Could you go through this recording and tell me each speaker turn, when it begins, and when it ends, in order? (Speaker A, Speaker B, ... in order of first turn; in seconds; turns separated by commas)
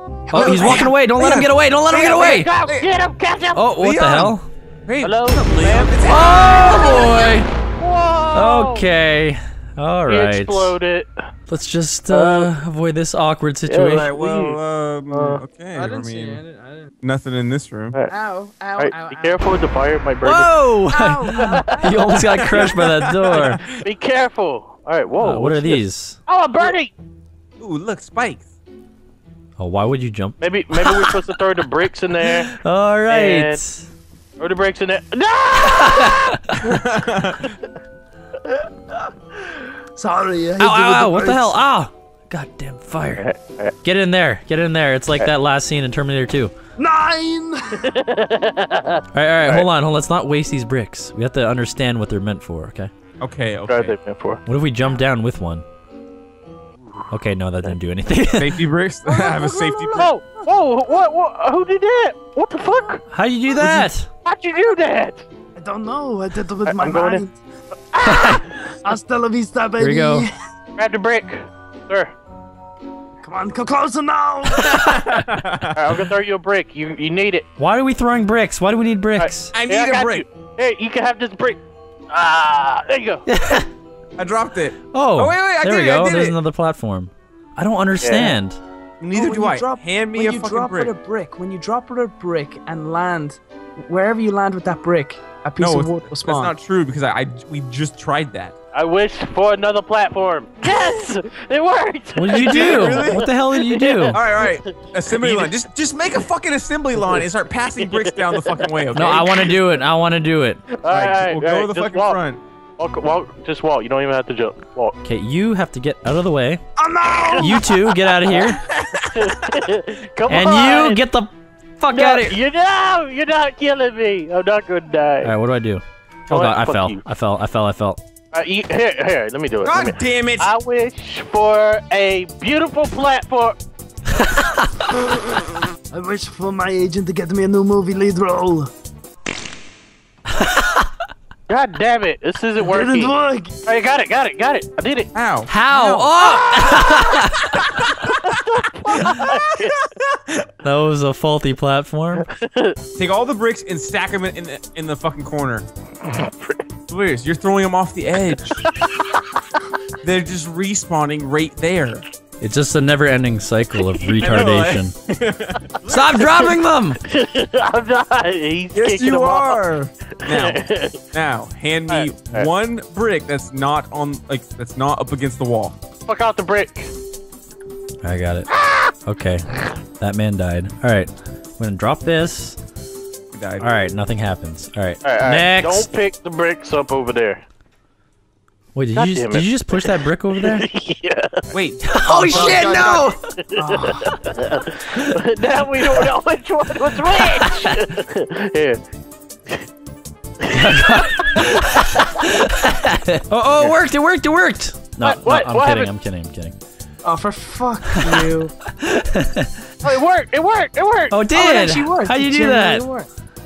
Speaker A: 0.3-0.9, Speaker B: 0.3-2.5, Speaker C: 0.3-2.9, Speaker D: 2.0-3.8, Speaker B: 3.5-4.5, Speaker C: 3.8-6.8, Speaker D: 5.0-8.9, Speaker B: 6.0-7.5, Speaker B: 8.3-10.8, Speaker D: 10.1-11.1, Speaker B: 11.5-14.1, Speaker D: 12.1-12.5, Speaker C: 12.1-12.4, Speaker D: 13.7-14.6, Speaker C: 13.9-16.4, Speaker D: 15.1-15.4, Speaker A: 15.7-16.9, Speaker C: 17.0-18.0, Speaker A: 18.1-19.5, Speaker D: 18.8-20.7, Speaker B: 20.2-23.6, Speaker A: 20.9-22.3, Speaker D: 21.4-22.6, Speaker C: 22.5-23.8, Speaker D: 23.6-26.9, Speaker B: 25.2-26.2, Speaker C: 27.6-28.5, Speaker B: 29.6-31.2, Speaker D: 30.4-32.5, Speaker B: 32.2-33.9, Speaker D: 33.1-33.6, Speaker D: 34.4-36.3, Speaker B: 35.6-36.7, Speaker C: 36.6-37.5, Speaker E: 40.0-41.5, Speaker B: 40.6-43.3, Speaker D: 43.2-43.7, Speaker B: 43.8-46.5, Speaker E: 46.8-47.9, Speaker D: 47.8-49.7, Speaker B: 49.1-52.9, Speaker C: 53.2-54.0, Speaker D: 53.7-54.4, Speaker B: 54.5-55.6, Speaker B: 57.1-58.7, Speaker C: 58.4-60.1, Speaker E: 59.1-60.1, Speaker D: 60.0-63.0, Speaker B: 63.1-64.1, Speaker C: 63.6-63.9, Speaker D: 64.2-65.2, Speaker E: 65.6-67.3, Speaker D: 66.7-67.2, Speaker D: 67.8-68.5, Speaker B: 68.0-68.4, Speaker E: 68.8-70.3, Speaker B: 69.8-70.3, Speaker D: 70.8-72.1, Speaker E: 73.2-74.8, Speaker B: 74.5-75.1, Speaker C: 74.6-75.9, Speaker D: 75.8-77.5, Speaker B: 77.6-79.5, Speaker D: 79.2-81.6, Speaker C: 79.5-80.2, Speaker D: 82.1-83.2, Speaker B: 83.3-83.7, Speaker C: 84.2-86.4, Speaker B: 84.9-88.6, Speaker D: 88.0-88.4, Speaker C: 89.0-90.9, Speaker A: 89.1-96.5, Speaker C: 95.6-98.6, Speaker D: 98.7-105.3, Speaker B: 102.2-104.2, Speaker C: 102.3-103.3, Speaker C: 104.1-109.8, Speaker D: 107.8-108.9, Speaker B: 108.9-110.6, Speaker D: 110.7-112.2, Speaker C: 110.9-112.4, Speaker D: 112.8-115.0, Speaker B: 115.0-116.6, Speaker E: 116.8-117.8, Speaker B: 117.4-118.6, Speaker D: 118.1-121.0, Speaker B: 120.3-122.4, Speaker D: 121.9-125.3, Speaker B: 125.2-128.0, Speaker D: 126.3-127.0, Speaker D: 128.3-133.6, Speaker C: 129.7-130.5, Speaker B: 134.2-134.7, Speaker E: 135.9-138.7, Speaker B: 140.4-140.8, Speaker D: 141.5-143.1, Speaker E: 142.6-143.5, Speaker D: 143.7-145.1, Speaker C: 145.1-146.2, Speaker B: 145.5-147.6, Speaker D: 146.7-147.2, Speaker D: 148.3-149.9, Speaker B: 150.6-152.3, Speaker D: 152.2-152.8, Speaker C: 153.0-155.7, Speaker D: 156.1-156.6, Speaker C: 156.9-158.6, Speaker C: 160.0-162.0, Speaker B: 162.4-164.9, Speaker D: 163.9-164.2, Speaker C: 164.2-166.5, Speaker B: 165.9-167.0, Speaker D: 166.4-169.6, Speaker C: 168.7-175.8, Speaker D: 170.2-171.1, Speaker D: 171.9-172.5, Speaker D: 176.1-176.9, Speaker B: 178.0-178.5, Speaker D: 178.5-178.9, Speaker B: 179.0-182.6, Speaker C: 183.3-183.7, Speaker B: 183.6-185.9, Speaker D: 185.0-187.4, Speaker B: 188.8-190.7, Speaker D: 188.9-191.5, Speaker C: 191.5-192.7, Speaker B: 191.8-193.2, Speaker A: 192.3-194.0, Speaker D: 193.5-198.8, Speaker B: 197.4-197.7, Speaker D: 200.4-201.7, Speaker B: 200.5-206.6, Speaker D: 205.0-205.9, Speaker A: 207.0-208.5, Speaker B: 207.9-209.5, Speaker D: 209.8-211.2, Speaker B: 211.1-212.9, Speaker A: 211.3-213.1